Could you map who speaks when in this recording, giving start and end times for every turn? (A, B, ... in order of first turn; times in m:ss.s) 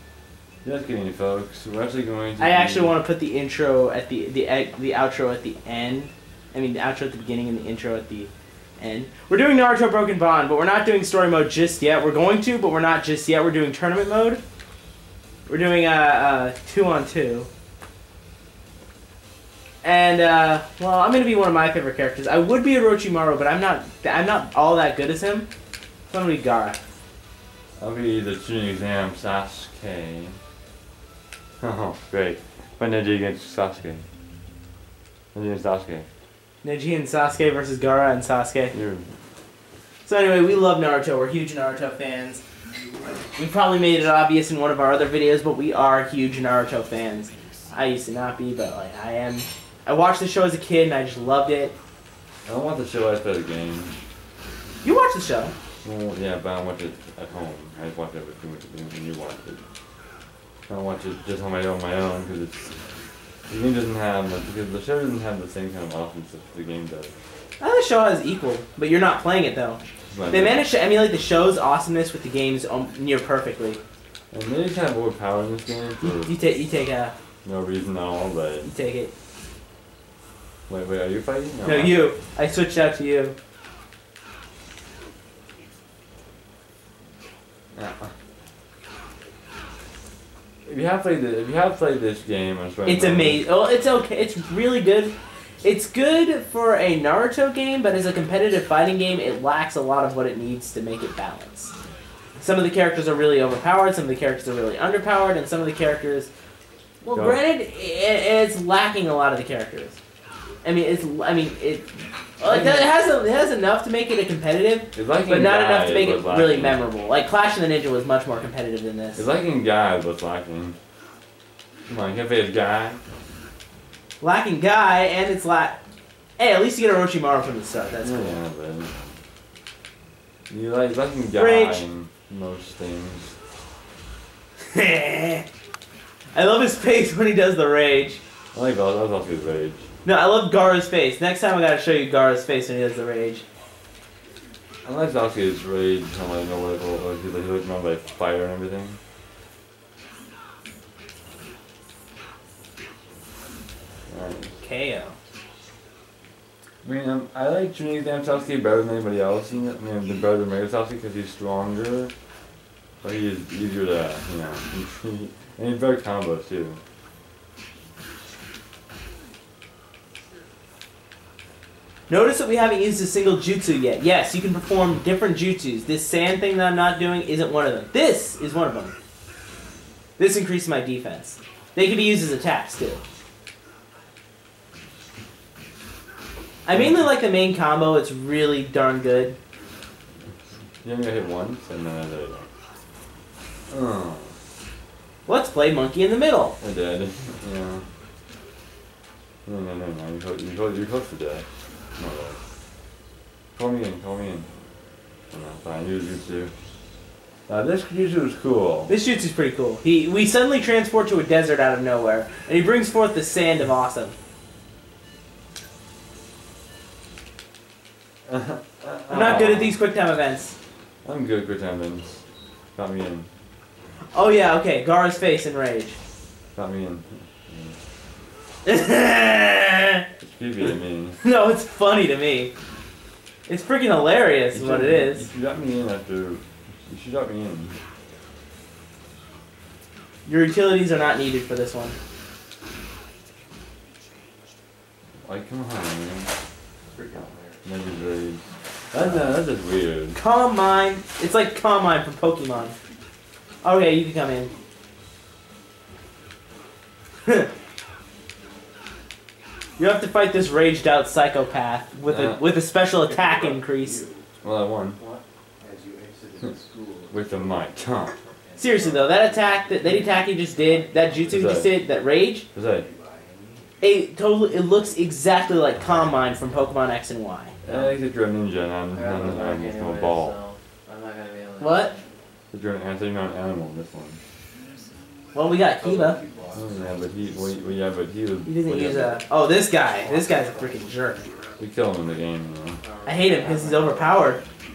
0:00.6-0:03.0 A
0:02.4-0:14.4 B
0:15.5-0:17.5 B
0:19.8-0:25.5 B
0:26.1-0:26.8 B
0:27.8-0:30.4 A
0:31.6-0:34.0 A
0:35.3-0:36.1 A
0:36.6-0:38.7 B
0:38.7-0:39.1 A
0:40.0-0:42.4 B
0:43.4-0:51.7 B
0:52.5-0:54.0 A
0:54.8-0:55.5 B
0:55.8-0:59.6 A
1:00.7-1:02.8 A
1:03.5-1:07.2 A
1:07.6-1:09.8 B
1:10.1-1:10.6 A
1:10.3-1:13.8 B
1:14.3-1:16.3 A
1:16.0-1:17.2 B
1:17.4-1:18.7 A
1:18.6-1:19.1 B
1:20.7-1:22.1 A
1:21.6-1:23.4 B
1:27.8-1:28.1 A
1:30.7-1:33.4 A
1:32.9-1:41.7 B
1:42.4-1:46.3 B
1:47.0-1:50.0 B
1:47.1-1:47.4 A
1:50.6-1:59.2 B
1:52.5-1:53.0 A
1:54.9-1:56.8 A
1:59.2-2:00.8 A
2:01.9-2:03.0 A
2:04.2-2:05.8 B
2:06.4-2:08.4 B
2:08.0-2:09.2 A
2:10.5-2:13.4 A
2:11.3-2:11.8 B
2:14.7-2:15.4 B
2:16.3-2:18.2 B
2:18.5-2:19.9 A
2:20.0-2:23.4 B
2:24.8-2:29.0 A
2:34.1-2:34.6 A
2:34.6-2:35.2 B
2:36.8-2:42.1 A
2:43.0-2:46.8 A
2:52.1-2:59.0 B
3:00.2-3:03.0 B
3:06.6-3:09.4 B
3:06.7-3:07.0 A
3:10.8-3:12.5 A
3:13.7-3:14.4 A
3:15.3-3:16.6 B
3:16.6-3:17.8 A
3:19.4-3:21.4 A
3:22.0-3:22.4 A
3:23.6-3:24.5 A
3:25.3-3:26.5 A
3:27.5-3:28.9 A
3:28.9-3:34.2 B
3:38.3-3:39.8 A
3:39.1-3:40.6 B
3:41.0-3:42.2 A
3:42.8-3:43.3 A
3:44.1-3:46.0 B
3:46.6-3:47.8 A
3:48.6-3:50.0 B
3:50.2-3:51.2 A
3:51.2-3:52.5 B
3:53.5-3:55.3 B
3:54.5-3:57.8 A
4:00.3-4:02.0 B
4:05.2-4:06.3 A
4:06.8-4:07.8 C
4:07.6-4:10.2 A
4:10.2-4:12.8 B
4:13.6-4:14.5 B
4:19.8-4:24.0 B
4:22.1-4:22.4 A
4:22.9-4:24.3 C
4:24.4-4:25.0 A
4:25.0-4:27.6 C
4:27.1-4:28.2 A
4:28.4-4:31.7 C
4:28.6-4:32.5 B
4:31.3-4:31.7 A
4:32.5-4:32.9 A
4:32.6-4:33.7 C
4:33.8-4:37.6 B
4:37.6-4:40.4 A
4:37.6-4:38.0 C
4:38.9-4:42.0 C
4:41.6-4:41.9 B
4:42.5-4:44.2 A
4:45.3-4:46.2 B
4:45.8-4:47.6 C
4:46.5-4:49.2 A
4:48.4-4:51.2 B
4:49.8-4:51.3 C
4:51.6-4:52.8 A
4:52.8-4:54.0 C
4:53.0-4:54.4 B